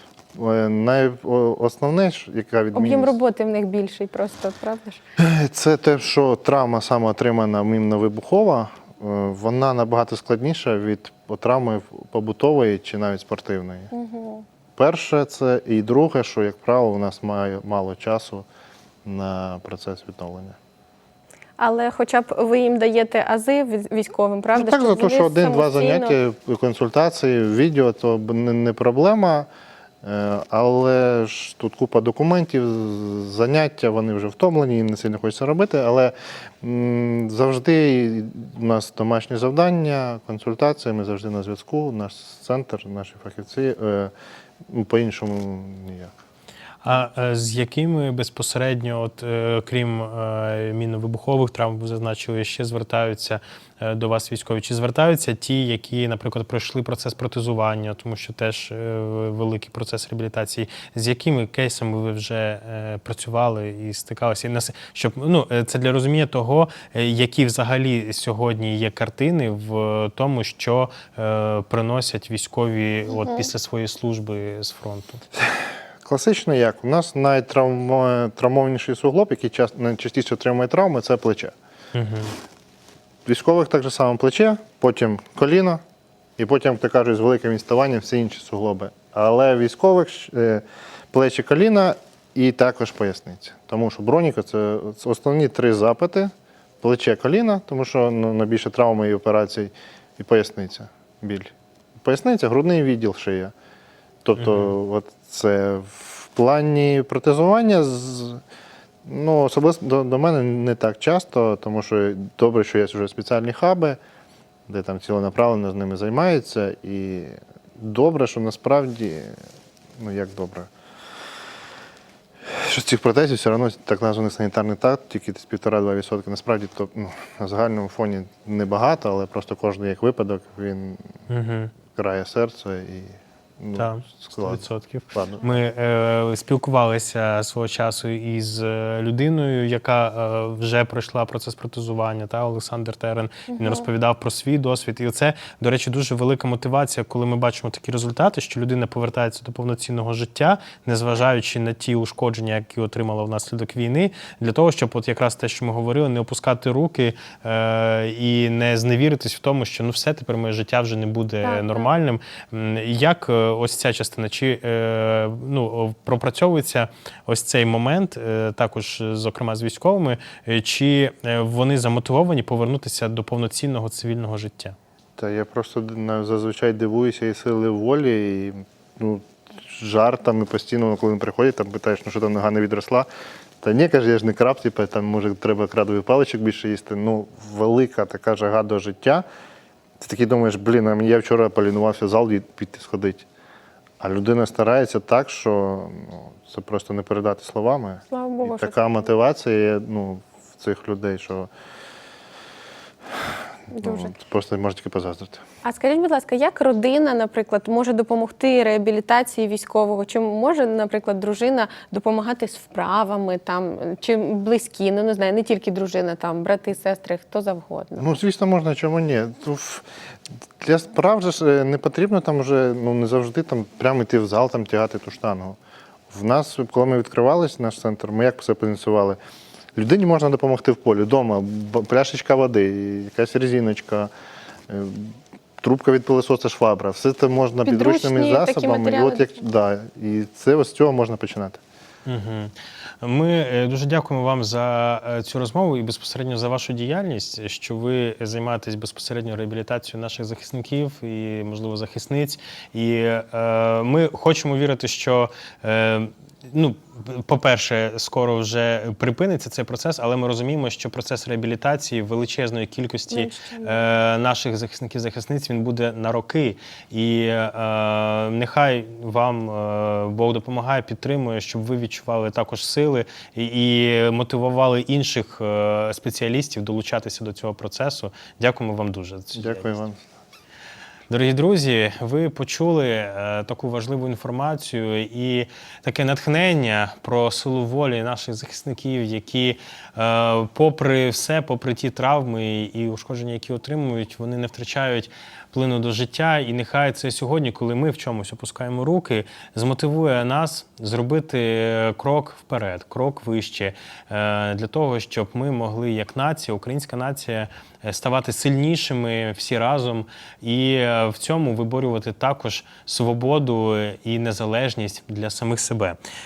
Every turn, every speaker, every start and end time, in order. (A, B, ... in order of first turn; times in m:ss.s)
0:00.3-0:03.2 A
0:02.7-0:05.0 B
0:05.2-0:13.9 A
0:13.9-0:14.4 B
0:14.8-0:18.4 A
0:19.0-0:20.6 A
0:21.6-0:26.2 B
0:24.5-0:29.5 A
0:30.0-0:44.1 A
0:44.7-0:46.1 A
0:46.8-1:15.2 C
1:13.1-1:13.5 B
1:16.0-1:21.5 A
1:21.9-1:22.3 C
1:23.2-1:25.8 A
1:26.4-1:43.5 A
1:44.2-1:48.4 A
1:44.4-1:44.7 C
1:49.0-1:54.0 A
1:54.7-1:59.4 A
2:00.0-2:00.7 A
2:02.4-2:11.0 A
2:11.3-2:11.7 C
2:11.9-2:15.4 A
2:13.8-2:54.7 C
2:23.5-2:23.8 B
2:41.4-2:41.9 B
2:55.2-3:03.1 A
3:03.6-3:09.2 A
3:10.0-3:13.2 A
3:14.0-3:21.5 A
3:18.1-3:19.1 B
3:23.7-3:25.4 A
3:23.7-3:24.1 B
3:25.6-3:38.2 B
3:38.0-3:39.8 A
3:40.6-3:45.6 A
3:46.1-3:49.2 A
3:49.8-3:54.1 A
3:54.7-4:01.6 A
3:57.6-3:59.3 B
4:02.0-4:39.8 C
4:23.1-4:23.8 B
4:39.3-4:40.0 A
4:41.1-5:16.0 C